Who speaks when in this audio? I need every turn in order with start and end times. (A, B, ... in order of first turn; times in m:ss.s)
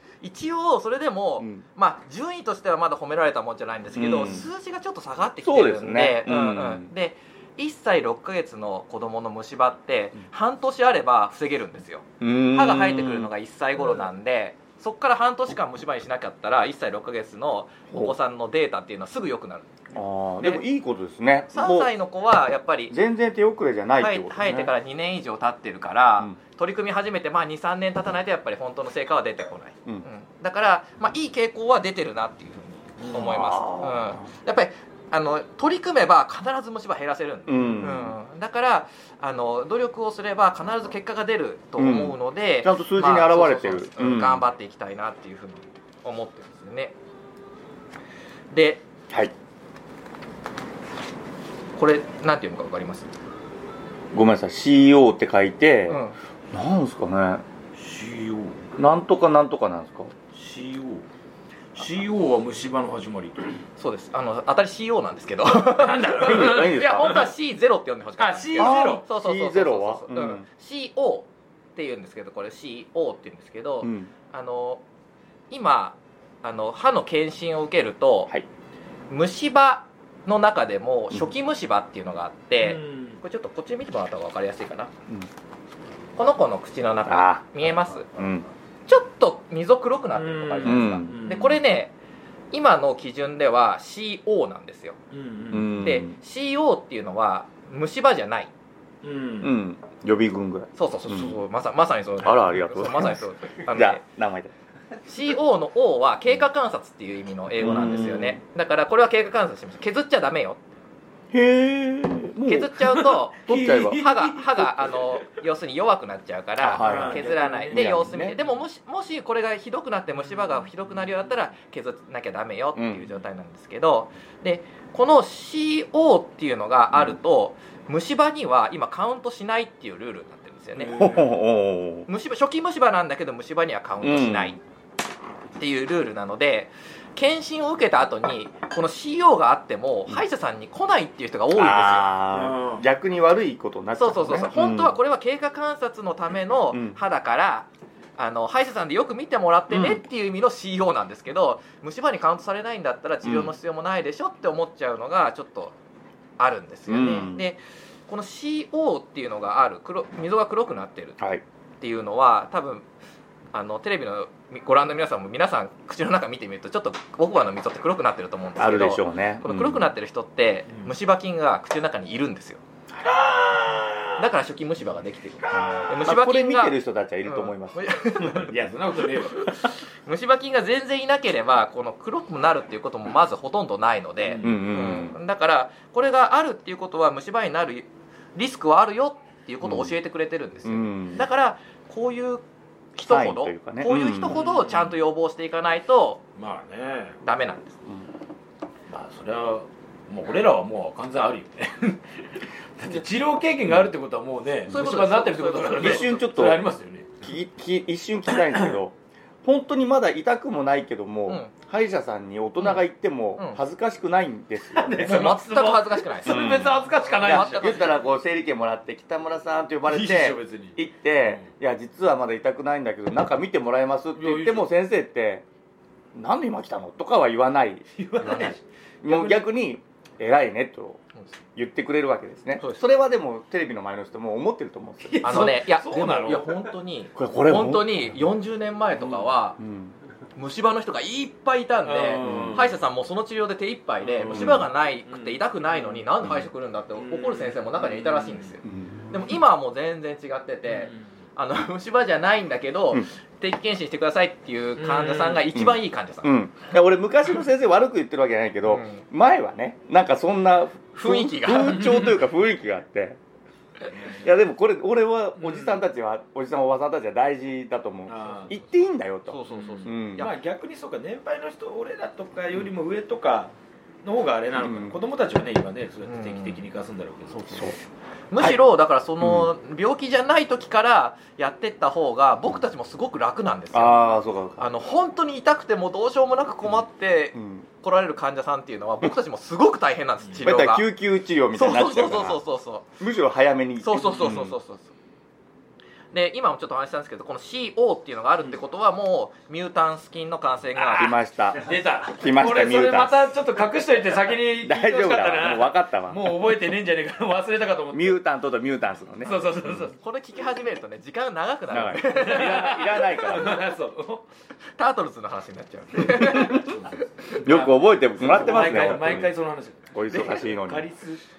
0:00.2-0:19.7 A
0:03.9-0:04.5 B
0:05.4-0:06.9 B
0:12.2-0:13.3 B
0:19.9-0:21.9 B
0:21.5-0:23.0 A
0:22.9-0:24.7 B
0:24.0-0:46.9 A
0:33.1-0:34.2 B
0:37.5-0:38.2 B
0:41.8-0:44.4 B
0:48.5-0:48.8 A
0:51.8-0:53.1 A
0:54.1-0:57.4 B
0:55.9-0:56.2 A
0:57.8-0:58.6 C
0:58.8-1:00.1 B
1:00.3-1:01.1 C
1:01.7-1:03.5 C
1:03.8-1:14.8 A
1:05.6-1:07.3 C
1:06.2-1:07.2 B
1:08.2-1:09.0 C
1:08.6-1:10.4 B
1:13.8-1:14.1 B
1:15.5-1:18.3 A
1:19.1-1:24.9 A
1:22.6-1:23.2 C
1:26.2-1:28.0 A
1:27.0-1:28.5 B
1:28.9-1:31.9 A
1:30.1-1:31.6 C
1:30.6-1:31.2 B
1:32.5-1:35.0 A
1:35.1-1:35.8 C
1:35.5-1:36.2 B
1:35.8-1:38.5 A
1:39.0-1:39.5 C
1:39.4-1:41.3 B
1:40.8-1:44.0 A
1:42.2-1:44.5 B
1:45.0-1:50.6 A
1:47.6-1:48.4 B
1:51.3-1:54.0 B
1:52.4-2:11.1 A
1:53.0-1:55.2 C
1:56.6-1:58.4 B
1:56.8-1:58.2 C
2:02.7-2:03.1 B
2:10.8-2:11.3 C
2:10.9-2:12.1 B
2:12.1-2:14.6 A
2:14.0-2:14.6 B
2:15.6-2:22.1 A
2:21.5-2:25.0 B
2:22.3-2:22.8 C
2:24.0-2:35.7 A
2:26.7-2:27.0 B
2:29.7-2:30.0 B
2:33.2-2:33.5 B
2:36.4-2:41.2 A
2:36.9-2:37.4 B
2:41.8-2:42.8 A
2:43.5-2:52.6 A
2:48.6-2:49.9 B
2:53.0-2:54.2 C
2:54.2-2:58.5 A
2:55.4-2:56.0 C
2:56.0-2:58.6 B
2:58.2-2:59.5 C
2:59.9-3:16.2 A
3:04.2-3:04.6 C
3:04.4-3:05.2 B
3:09.6-3:09.9 B
3:10.6-3:11.2 B
3:13.0-3:14.4 B
3:14.2-3:15.0 C
3:16.4-3:17.2 C
3:17.2-3:17.8 A
3:18.9-3:27.2 C
3:24.7-3:26.1 A
3:25.8-3:26.6 B
3:27.2-3:35.4 B
3:28.4-3:28.7 C
3:31.3-3:31.5 A
3:33.4-3:33.6 A
3:34.7-3:38.0 C
3:35.0-3:38.0 A
3:36.2-3:45.4 B
3:39.9-3:41.4 C
3:44.1-3:44.7 C
3:46.1-3:47.8 B
3:47.9-3:48.6 C
3:48.2-3:48.6 A
3:49.0-3:51.0 B
3:51.5-3:55.5 B
3:55.0-3:56.7 C
3:55.2-3:59.6 A
3:57.1-3:58.2 B
3:59.6-3:59.9 B
4:00.4-4:16.3 A
4:01.8-4:02.7 C
4:02.2-4:02.6 B
4:04.0-4:06.1 C
4:04.2-4:04.7 B
4:07.0-4:08.5 C
4:08.6-4:09.4 B
4:10.6-4:11.0 C
4:14.8-4:15.5 C
4:15.5-4:23.2 B
4:18.6-4:19.0 A
4:20.9-4:22.0 A
4:24.0-4:30.3 B
4:25.4-4:25.8 C
4:28.1-4:28.5 C
4:29.3-4:30.3 A
4:29.5-4:33.5 C
4:34.0-4:37.7 C
4:34.6-4:35.0 B
4:36.0-4:36.6 A
4:38.3-4:44.0 A
4:39.2-4:39.5 B
4:43.7-4:44.7 B
4:44.6-4:50.9 A
4:47.3-4:47.6 B
4:50.4-4:52.4 B
4:51.5-4:52.9 A
4:53.0-4:54.6 B
4:53.8-4:54.9 A
4:56.1-5:01.1 A
5:00.8-5:03.3 B
5:01.6-5:08.2 C
5:04.6-5:06.4 B
5:07.9-5:09.3 B
5:09.2-5:10.0 C
5:10.0-5:12.8 A
5:11.7-5:13.6 B
5:12.0-5:14.2 C
5:14.8-5:17.3 A
5:16.0-5:16.7 B
5:16.4-5:21.2 C
5:17.4-5:19.3 B
5:19.9-5:20.9 B